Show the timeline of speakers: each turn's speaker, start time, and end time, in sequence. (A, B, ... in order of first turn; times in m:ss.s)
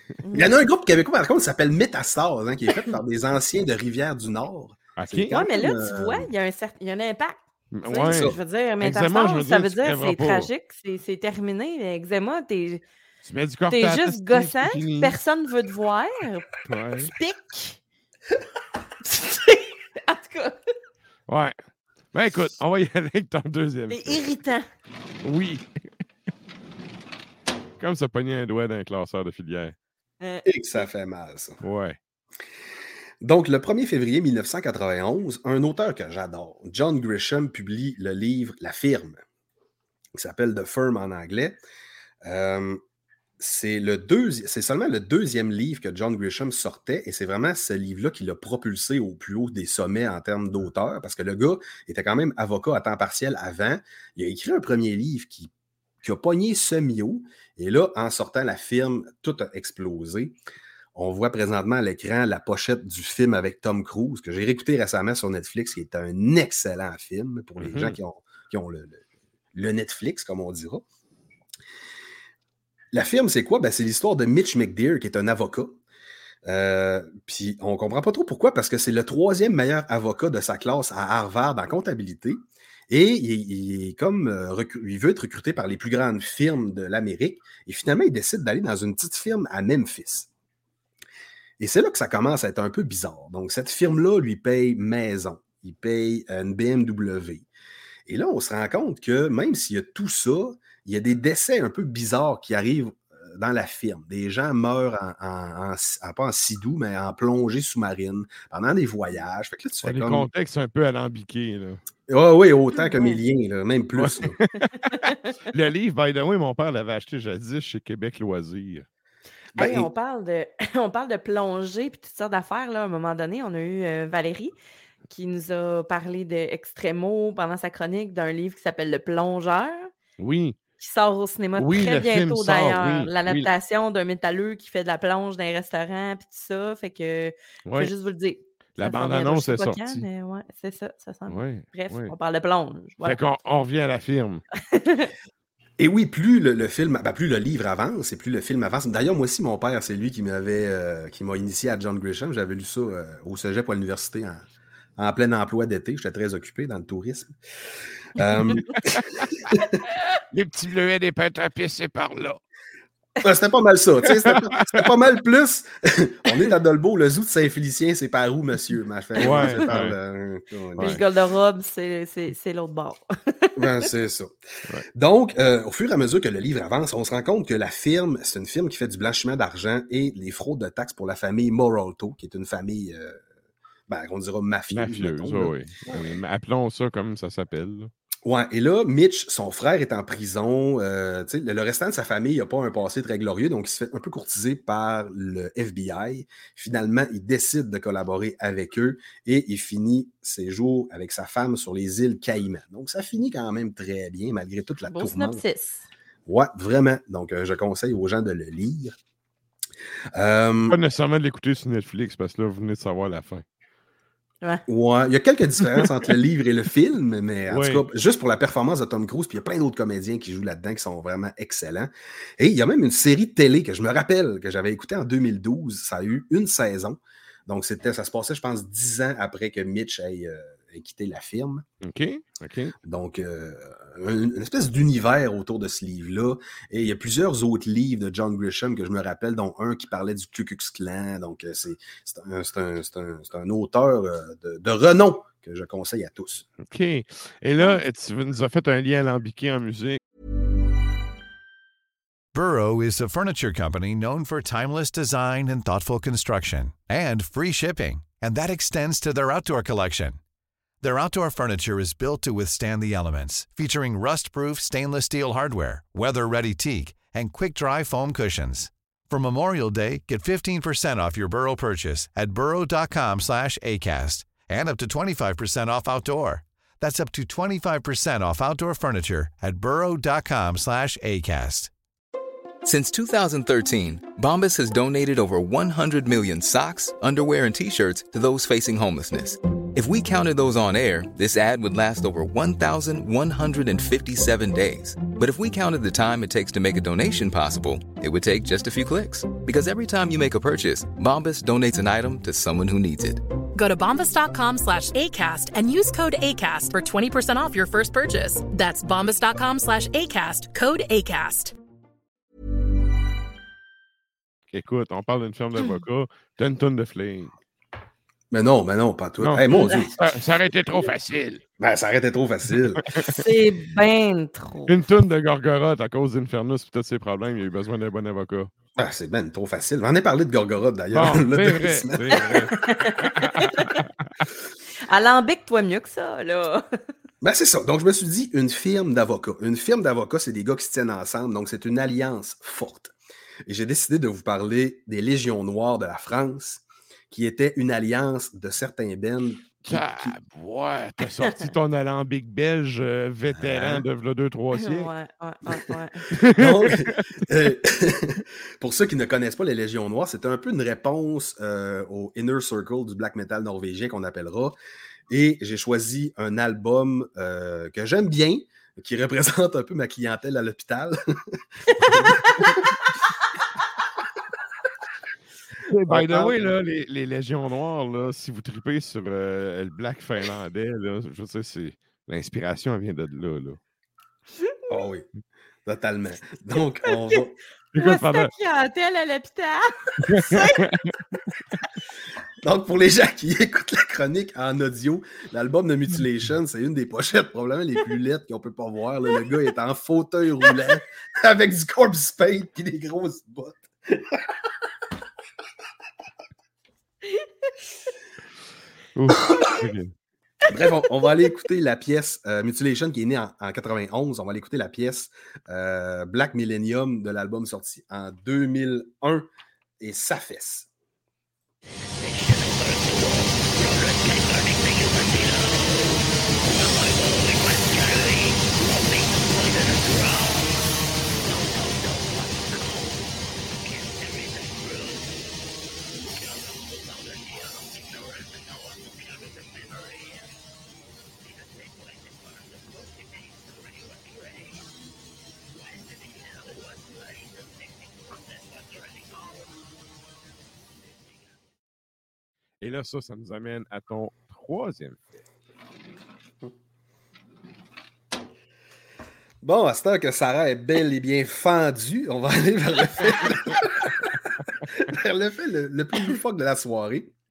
0:00.2-0:00.5 A
0:00.3-0:06.3 B
0:05.0-0:05.4 C
0:05.3-0:12.8 A
0:07.7-0:10.5 C
0:08.0-0:08.4 B
0:13.2-0:15.2 C
0:13.7-0:17.8 A
0:16.7-0:17.1 C
0:19.0-0:20.7 A
0:21.3-0:21.6 C
0:22.1-0:24.3 C
0:23.9-0:24.7 A
0:25.2-0:25.8 C
0:27.8-0:29.8 C
0:30.2-0:30.9 A
0:30.4-0:31.6 B
0:31.6-0:32.0 C
0:33.2-0:39.2 B
0:40.2-0:41.6 B
0:42.2-0:42.8 B
0:43.4-0:55.5 B
0:56.0-1:00.4 B
1:01.0-1:09.0 B
1:07.6-1:08.0 C
1:09.5-1:10.8 B
1:12.9-1:15.8 B
1:16.5-1:30.3 B
1:31.6-1:37.5 B
1:38.1-1:50.3 B
1:49.8-1:51.8 C
1:52.1-1:54.4 B
1:52.8-1:53.2 A
1:54.0-1:58.9 C
1:54.9-1:55.3 A
1:59.6-1:59.9 B
1:59.6-2:04.5 A
2:05.1-2:09.9 A
2:10.2-2:10.6 C
2:10.8-2:23.2 A
2:11.6-2:13.5 C
2:17.7-2:17.9 C
2:18.8-2:20.1 C
2:21.3-2:22.2 C
2:23.0-2:24.4 C
2:24.7-2:25.1 A
2:25.8-2:34.5 B
2:35.0-2:37.4 B
2:38.2-2:39.8 B
2:40.3-2:42.4 C
2:43.2-2:51.0 B
2:44.2-2:44.9 C
2:49.2-2:50.0 C
2:49.2-2:49.7 A
2:50.8-2:53.6 A
2:53.6-2:54.3 B
2:54.9-3:03.2 B
3:03.9-3:06.0 B
3:04.7-3:07.9 C
3:08.2-3:25.4 B
3:24.9-3:25.9 A
3:26.3-3:29.0 B
3:30.1-3:30.8 B
3:30.7-3:33.4 C
3:34.7-3:51.6 B
3:37.5-3:37.8 C
3:51.8-3:52.8 C
3:52.8-4:06.4 B
4:06.6-4:10.0 C
4:12.3-4:20.2 D
4:20.8-4:41.7 D
4:42.6-5:03.2 E
5:03.5-5:11.5 F
5:14.5-5:17.3 C
5:18.3-5:20.0 B
5:19.2-5:21.4 C
5:21.6-5:22.9 B
5:22.8-5:23.2 C
5:23.1-5:24.8 A
5:24.7-5:28.5 C
5:28.8-5:32.5 B
5:30.9-5:34.1 C
5:32.6-5:33.8 A
5:34.9-5:36.7 A
5:37.2-5:42.9 B
5:43.5-5:50.2 B
5:49.6-5:54.9 C
5:53.3-5:53.9 B
5:54.5-5:56.1 A
5:56.1-5:57.2 C
5:56.4-6:04.6 B
6:05.1-6:12.6 B
6:11.8-6:12.3 A
6:15.7-6:23.6 C
6:15.9-6:16.4 B
6:24.7-6:25.1 B
6:25.7-6:27.4 B
6:27.7-6:28.3 C
6:27.8-6:30.7 A
6:30.1-6:31.0 C
6:32.4-6:44.2 B
6:49.0-6:49.9 C
6:50.5-6:59.3 B
6:59.8-7:00.7 B
7:32.6-7:35.0 C
7:39.4-7:44.0 B
7:44.7-7:47.1 B